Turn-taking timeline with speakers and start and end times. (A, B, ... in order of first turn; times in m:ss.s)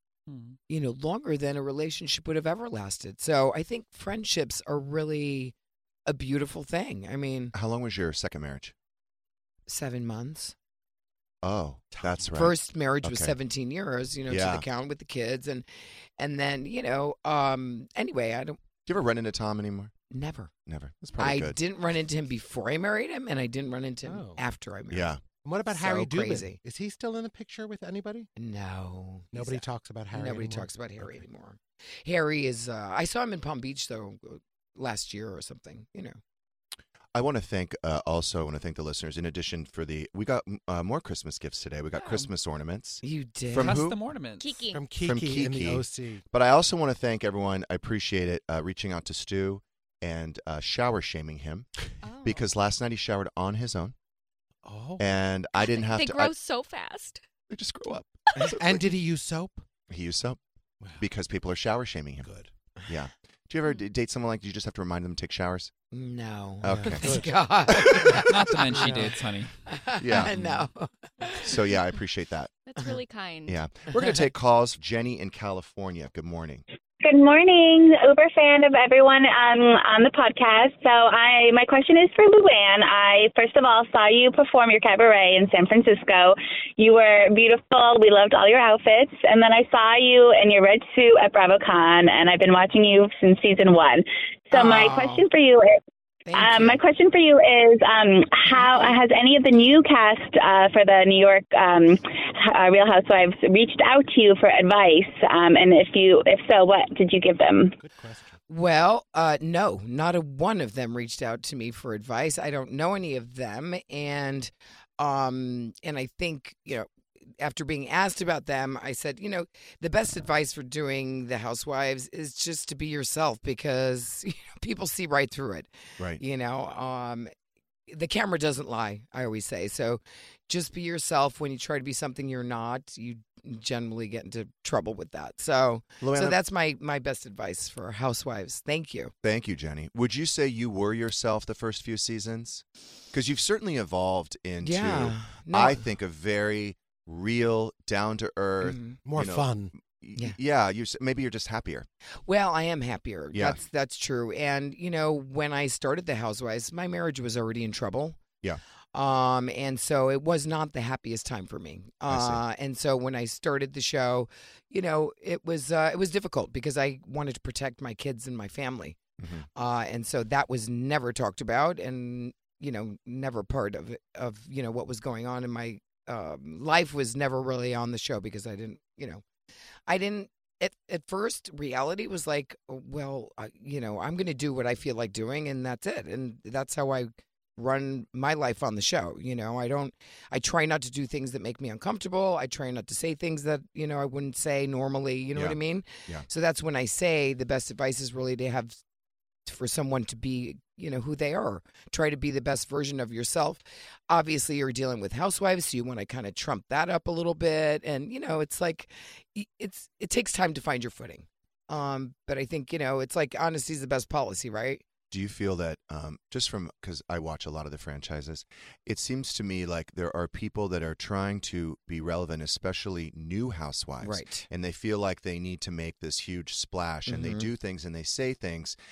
0:00.3-0:00.6 A
0:00.7-0:05.5 B
0:06.1-0:07.5 B
0:07.5-0:08.7 C
0:09.7-0:10.5 B
0:11.4-0:13.3 C
0:12.0-0:12.2 D
0:12.3-0:15.6 B
0:14.3-0:14.6 C
0:16.2-0:18.6 B
0:18.8-0:19.9 C
0:20.1-0:20.5 B
0:20.6-0:21.6 C
0:21.2-0:25.1 B
0:24.0-0:24.4 D
0:24.9-0:25.2 C
0:25.3-0:28.3 D
0:25.7-0:26.6 B
0:28.4-0:36.2 B
0:29.3-0:31.2 D
0:37.1-0:44.0 C
0:42.0-0:42.3 A
0:43.0-0:43.9 B
0:43.6-0:44.6 A
0:44.4-0:44.9 E
0:44.7-0:46.2 D
0:45.0-0:51.7 C
0:52.0-0:52.5 E
0:52.2-0:53.9 C
0:54.6-0:55.1 D
0:55.0-0:56.3 C
0:55.6-0:57.2 E
0:57.5-0:58.9 C
0:58.6-0:59.6 D
0:59.9-1:00.4 C
1:01.0-1:02.3 C
1:02.2-1:02.5 D
1:02.9-1:05.7 C
1:05.9-1:09.0 B
1:06.6-1:08.2 C
1:06.6-1:09.2 D
1:08.3-1:09.5 A
1:09.7-1:11.6 B
1:10.0-1:10.6 C
1:11.4-1:12.5 C
1:12.6-1:13.6 E
1:13.4-1:16.6 C
1:17.0-1:35.8 F
1:34.5-1:35.2 B
1:36.3-1:36.8 B
1:36.3-1:47.8 F
1:38.4-1:39.0 B
1:47.8-1:48.4 D
1:48.5-2:07.3 B
2:07.9-2:19.1 B
2:16.0-2:16.4 C
2:19.2-2:31.9 C
2:24.6-2:25.8 B
2:28.6-2:29.0 B
2:29.0-2:29.7 D
2:32.2-2:38.2 B
2:33.3-2:33.6 C
2:38.9-2:49.0 B
2:42.1-2:42.4 C
2:49.2-2:49.4 C
2:49.5-2:59.2 B
2:59.9-3:18.8 B
3:15.3-3:16.2 C
3:19.4-3:34.8 B
3:35.1-3:48.8 C
3:44.0-3:44.5 B
3:47.1-3:47.5 B